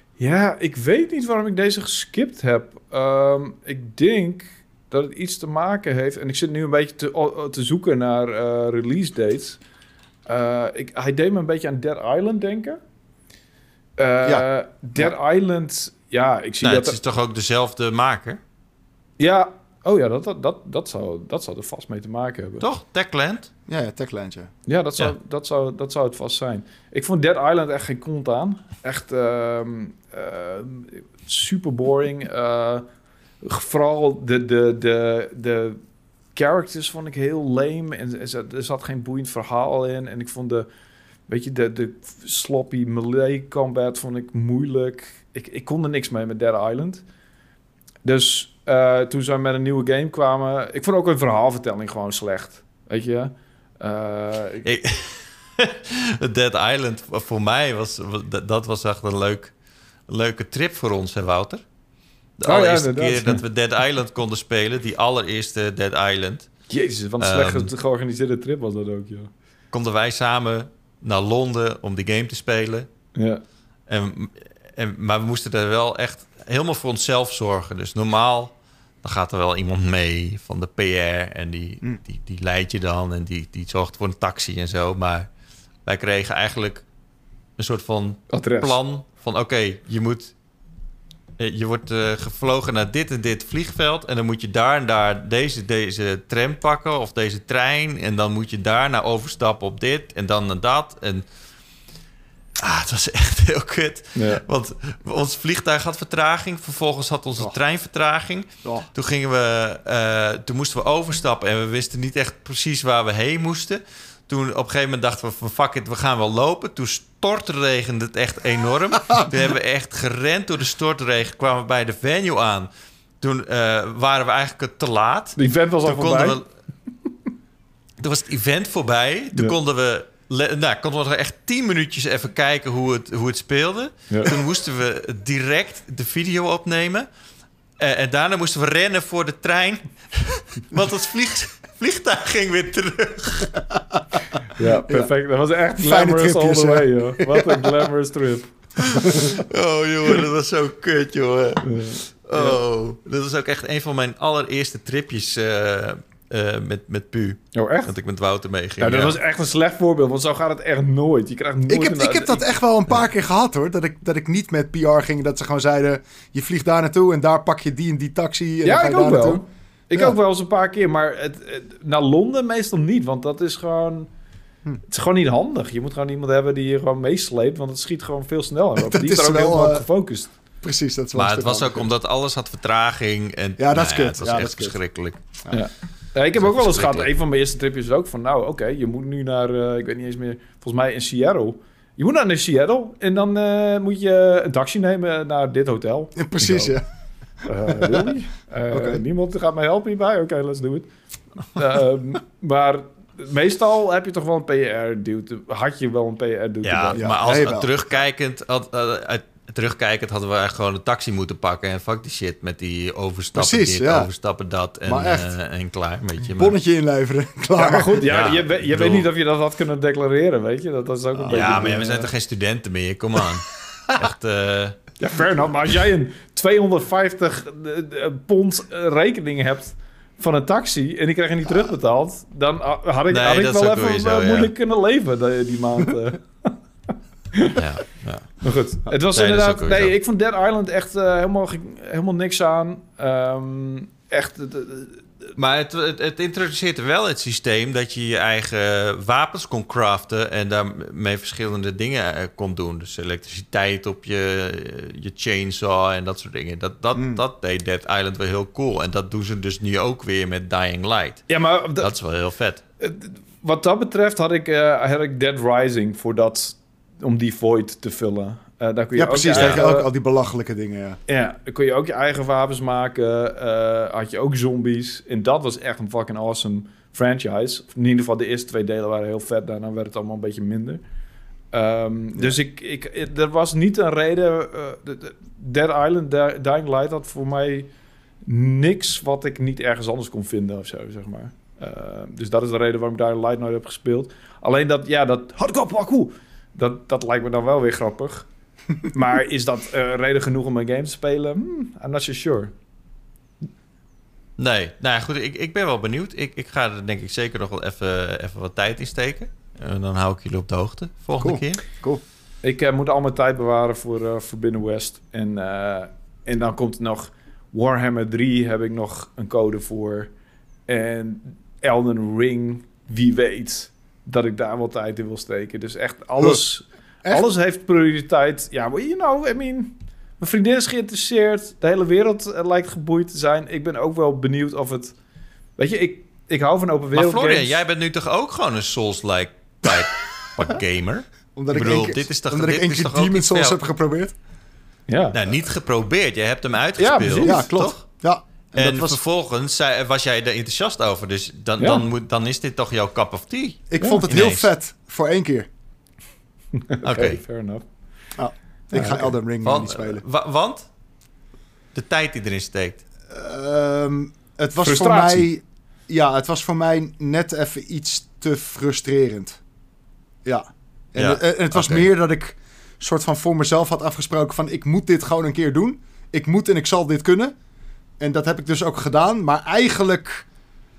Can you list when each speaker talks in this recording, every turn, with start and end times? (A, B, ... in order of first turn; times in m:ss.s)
0:00.2-0:09.6 A
0:10.3-0:12.8 A
0:14.0-0:17.0 A
0:16.6-0:18.4 B
0:19.2-0:22.6 A
0:22.6-0:23.5 B
0:23.7-0:24.5 C
0:24.7-0:32.9 A
0:33.4-0:35.8 A
0:36.4-0:40.7 A
0:41.3-0:47.0 A
0:48.0-0:54.7 A
0:54.6-0:59.5 B
1:00.1-1:01.6 B
1:02.4-1:06.5 B
1:02.5-1:03.4 A
1:06.7-1:09.3 A
1:07.2-1:07.7 B
1:09.7-1:12.9 B
1:13.2-1:13.4 A
1:13.9-1:25.3 B
1:25.9-1:26.8 B
1:27.6-1:30.3 B
1:28.3-1:28.8 A
1:31.4-1:41.3 B
1:42.6-2:02.7 B
1:44.2-1:44.4 A
2:03.2-2:06.5 B
2:05.4-2:06.4 A
2:08.0-2:17.1 B
2:17.8-2:23.6 B
2:24.6-2:28.5 A
2:25.8-2:27.8 C
2:28.8-2:39.2 B
2:29.0-2:29.4 C
2:31.6-2:32.6 A
2:37.5-2:37.9 A
2:38.8-2:42.5 A
2:41.7-2:49.4 C
2:48.6-2:54.1 A
2:54.9-3:00.3 A
2:58.8-2:59.9 C
3:00.6-3:01.9 C
3:01.2-3:05.2 B
3:03.6-3:04.8 C
3:05.5-3:16.8 A
3:06.4-3:07.1 B
3:16.2-3:16.8 C
3:17.4-3:18.1 C
3:17.5-3:20.9 A
3:18.7-3:19.0 C
3:21.4-3:27.0 A
3:26.6-3:36.6 B
3:27.0-3:27.7 C
3:33.4-3:34.1 C
3:34.9-3:35.3 C
3:36.2-3:38.0 C
3:37.6-3:42.1 A
3:38.0-3:39.1 B
3:41.2-3:41.7 C
3:41.3-3:44.8 B
3:45.0-3:56.6 A
3:53.1-3:54.5 B
3:57.3-3:57.6 A
3:57.5-4:00.0 B
3:58.4-4:05.0 A
4:05.4-4:22.6 B
4:17.0-4:17.2 C
4:21.3-4:21.9 A
4:22.8-4:29.9 A
4:29.0-4:31.0 C
4:29.3-4:29.7 B
4:31.1-4:40.8 A
4:41.5-4:47.7 A
4:48.2-4:58.3 A
4:58.8-5:02.5 A
5:04.4-5:11.6 B
5:11.2-5:12.0 C
5:12.4-5:20.1 A
5:20.7-5:35.0 A
5:35.6-5:37.6 A
5:36.9-5:43.6 B
5:41.4-5:44.1 C
5:44.9-5:45.2 A
5:45.1-5:47.9 B
5:46.8-5:47.5 A
5:47.2-5:49.0 C
5:48.6-5:54.5 B
5:51.6-5:51.8 A
5:53.7-5:55.5 C
5:53.8-5:54.1 A
5:56.6-5:57.6 A
5:56.8-5:57.2 B
5:58.2-6:00.0 C
5:58.7-5:59.1 A
5:59.4-6:00.7 B
6:01.7-6:02.8 B
6:03.1-6:09.4 C
6:04.6-6:05.3 A
6:10.2-6:17.4 C
6:11.0-6:11.9 B
6:18.0-6:20.3 C